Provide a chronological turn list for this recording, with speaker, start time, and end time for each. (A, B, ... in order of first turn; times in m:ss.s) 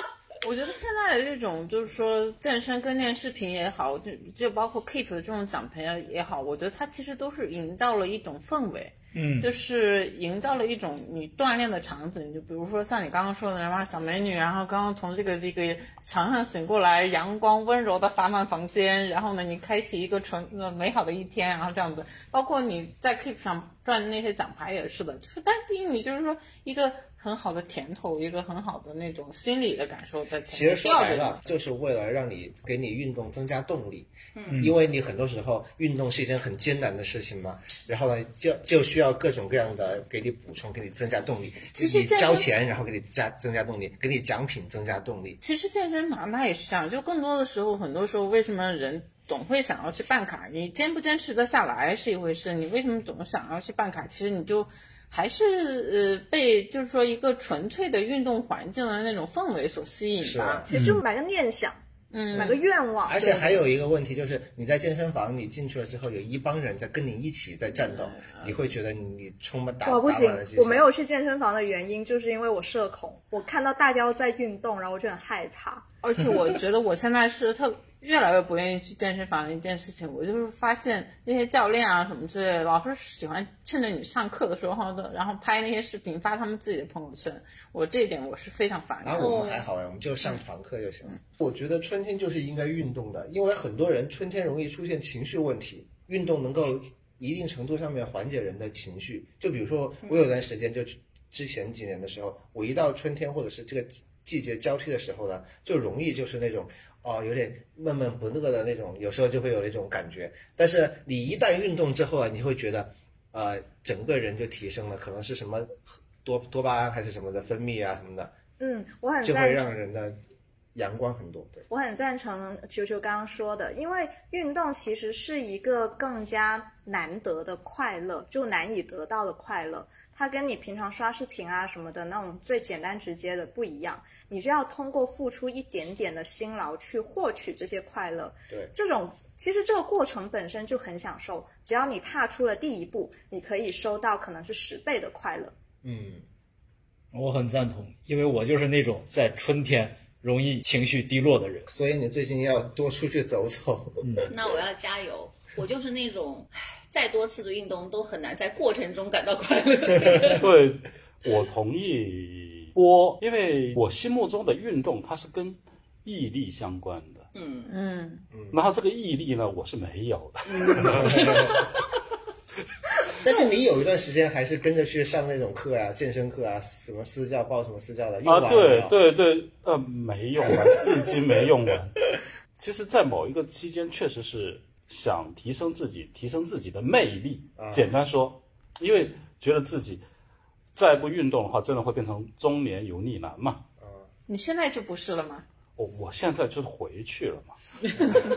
0:00.4-0:31.4 A
0:09.1-0:09.5 B
0:30.5-0:45.4 C
0:34.4-0:34.7 D
0:34.5-0:34.8 B
0:41.8-0:42.5 A
0:45.4-1:00.7 A
1:00.2-1:00.7 C
1:00.7-1:01.8 E
1:00.7-1:01.0 B
1:02.1-1:02.6 A
1:02.3-1:03.7 E
1:03.1-1:10.9 C
1:07.8-1:08.6 A
1:09.8-1:15.9 E
1:16.0-1:29.6 A
1:29.0-1:58.3 C
1:40.0-1:40.3 D
1:58.6-1:59.7 E
1:59.2-2:00.2 C
2:00.8-2:01.6 C
2:01.7-2:25.6 E
2:25.8-2:26.3 C
2:27.1-2:31.7 B
2:31.7-2:34.3 C
2:34.0-2:34.3 B
2:34.3-2:40.4 D
2:40.4-2:47.3 F
2:47.3-2:47.7 D
2:47.7-2:48.3 A
2:48.5-2:51.4 F
2:50.5-2:51.4 D
2:50.9-2:51.5 C
2:53.2-2:59.0 C
2:58.2-3:02.0 F
3:02.6-3:10.0 F
3:07.6-3:07.9 C
3:10.8-3:13.6 F
3:13.8-3:14.1 C
3:14.3-3:15.5 A
3:15.8-3:17.6 F